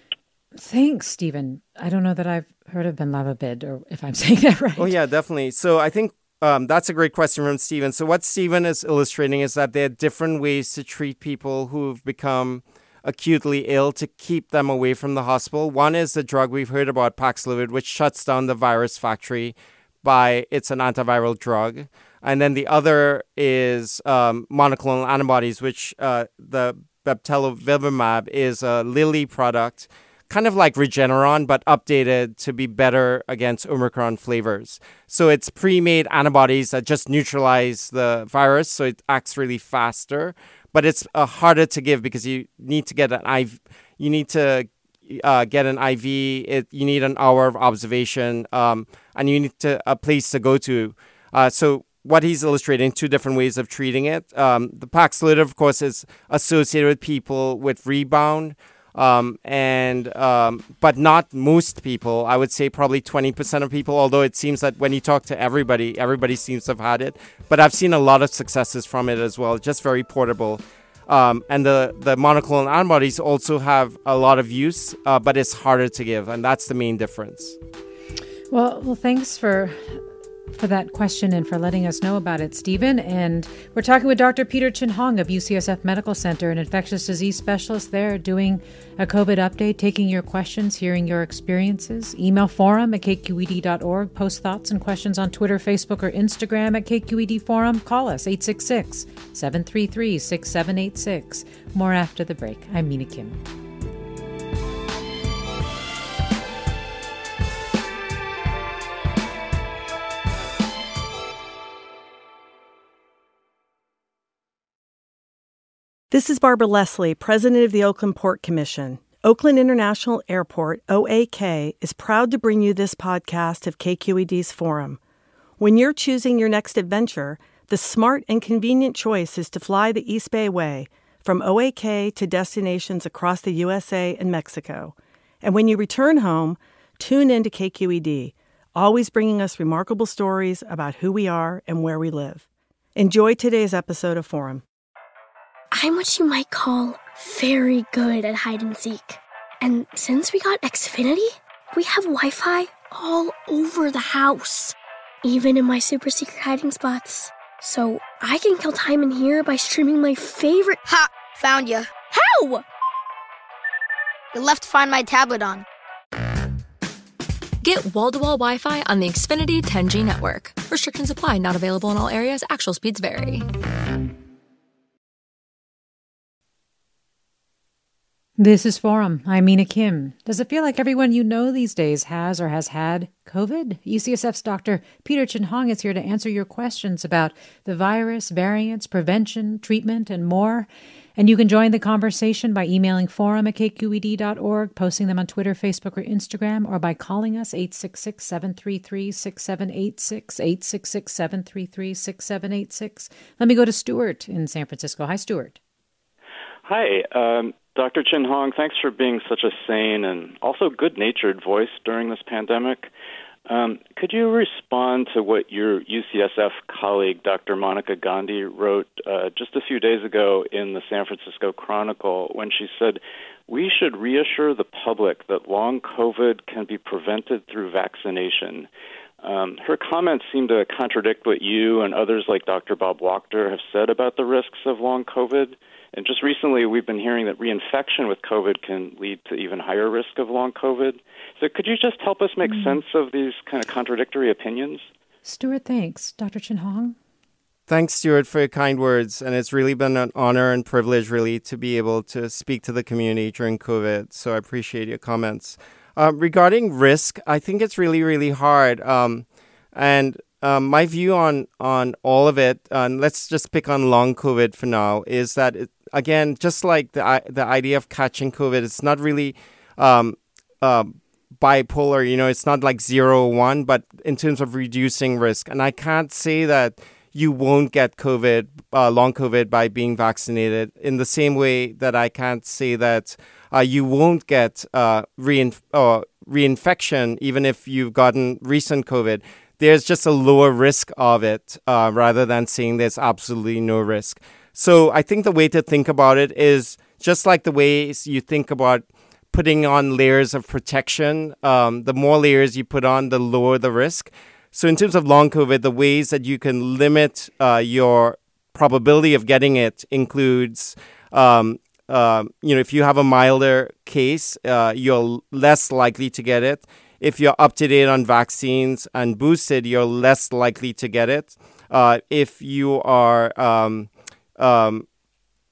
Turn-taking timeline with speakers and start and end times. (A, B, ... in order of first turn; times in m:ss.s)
0:00.6-0:04.9 A
0:04.8-1:17.6 B
1:18.5-1:20.0 A
1:20.5-1:43.4 A
1:56.1-2:05.0 C
2:05.6-2:22.4 C
2:23.0-2:24.6 C
2:25.7-2:40.8 D
2:40.9-2:41.9 E
2:42.1-2:42.6 D
2:44.3-2:45.6 E
2:47.6-2:53.5 F
2:58.4-3:25.6 A
3:26.6-3:32.9 G
3:33.5-3:48.7 G
3:49.2-4:04.8 G
4:02.4-4:02.8 A
4:05.2-4:07.0 A
4:07.7-5:24.9 B